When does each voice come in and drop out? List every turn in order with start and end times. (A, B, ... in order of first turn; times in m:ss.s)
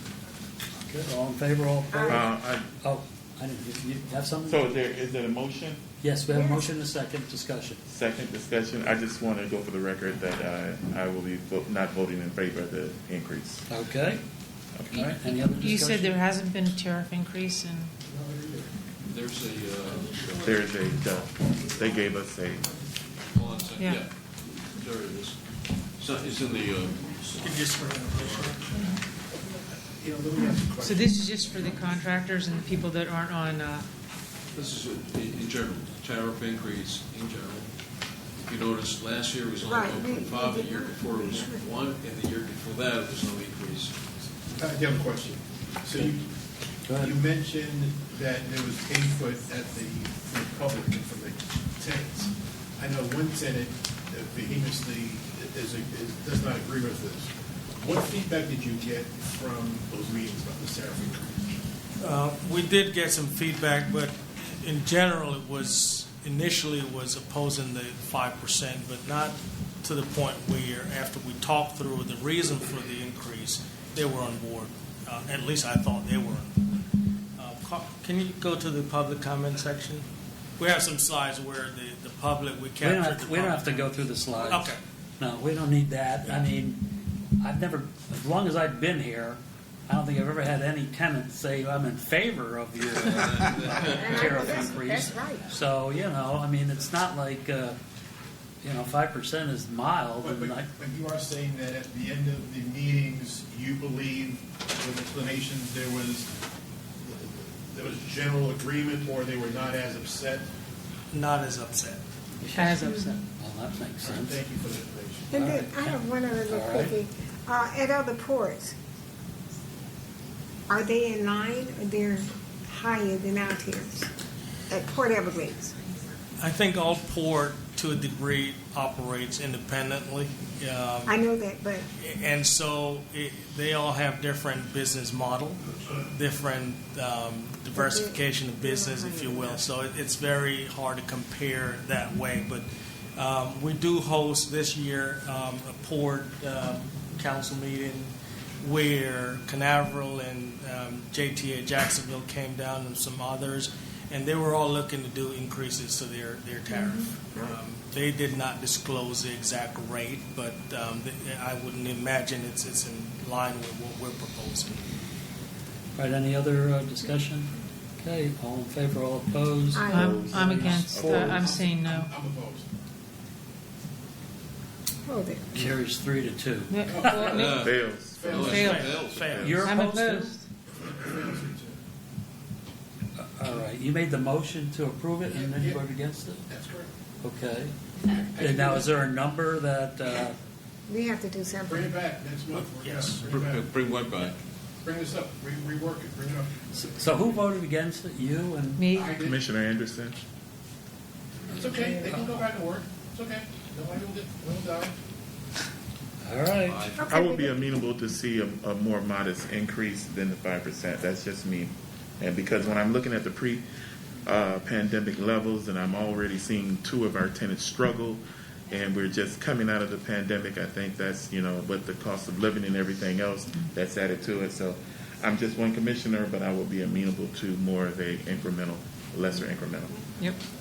0:00.8-0:04.6 A
0:01.9-0:02.2 B
0:02.1-0:02.7 C
0:04.5-0:05.8 C
0:06.0-0:07.8 A
0:06.3-0:06.7 B
0:07.9-0:13.6 C
0:13.7-0:14.2 A
0:14.8-0:15.1 C
0:14.9-0:16.2 A
0:15.6-0:17.9 D
0:18.2-0:18.7 E
0:19.1-0:20.6 F
0:20.4-0:22.7 C
0:23.2-0:25.4 F
0:26.0-0:28.5 F
0:27.4-0:28.6 G
0:29.8-0:31.9 E
0:30.8-0:33.9 D
0:34.5-0:37.7 F
0:38.4-0:44.0 F
0:39.6-0:41.8 B
0:44.5-0:46.3 E
0:46.8-0:47.1 A
0:46.9-1:01.4 E
1:02.0-1:16.6 G
1:17.4-1:20.0 G
1:20.6-1:24.8 G
1:22.8-1:26.8 A
1:27.4-1:37.8 A
1:32.9-1:34.4 F
1:33.8-1:35.5 B
1:38.6-1:40.7 A
1:40.2-1:46.3 E
1:47.0-1:50.5 E
1:51.1-1:52.0 G
1:52.4-1:54.4 A
1:52.5-1:53.2 D
1:54.0-1:55.3 E
1:55.3-1:58.7 B
1:55.3-1:57.0 A
2:00.7-2:04.1 B
2:04.7-2:05.8 B
2:06.4-2:11.2 G
2:11.0-2:11.9 B
2:12.0-2:44.8 G
2:17.7-2:19.6 B
2:36.7-2:37.6 B
2:46.0-2:50.8 A
2:49.7-2:50.8 B
2:49.9-2:52.1 D
2:49.9-2:51.4 C
2:51.0-2:52.7 E
2:55.1-2:55.5 B
2:55.5-2:56.8 A
2:56.7-2:57.6 D
2:56.8-2:59.0 E
2:57.2-2:59.2 F
2:57.6-2:59.7 C
2:58.4-2:59.6 G
2:58.5-2:58.8 D
2:59.4-3:00.3 A
2:59.6-3:00.4 D
3:00.8-3:01.8 E
3:03.2-3:06.4 A
3:05.3-3:05.8 E
3:06.5-3:06.9 E
3:07.2-3:07.7 A
3:08.1-3:09.0 E
3:08.4-3:10.4 A
3:10.9-3:12.0 B
3:11.7-3:13.7 E
3:12.8-3:13.2 G
3:13.0-3:14.4 F
3:14.8-3:17.3 E
3:16.8-3:18.9 A
3:18.8-3:19.2 D
3:18.9-3:19.4 E
3:19.2-3:20.2 C
3:21.6-3:22.3 A
3:21.6-3:24.9 E
3:26.2-3:26.9 A
3:26.6-3:27.1 F
3:27.0-3:27.8 B
3:27.1-3:33.6 C
3:34.2-3:50.0 C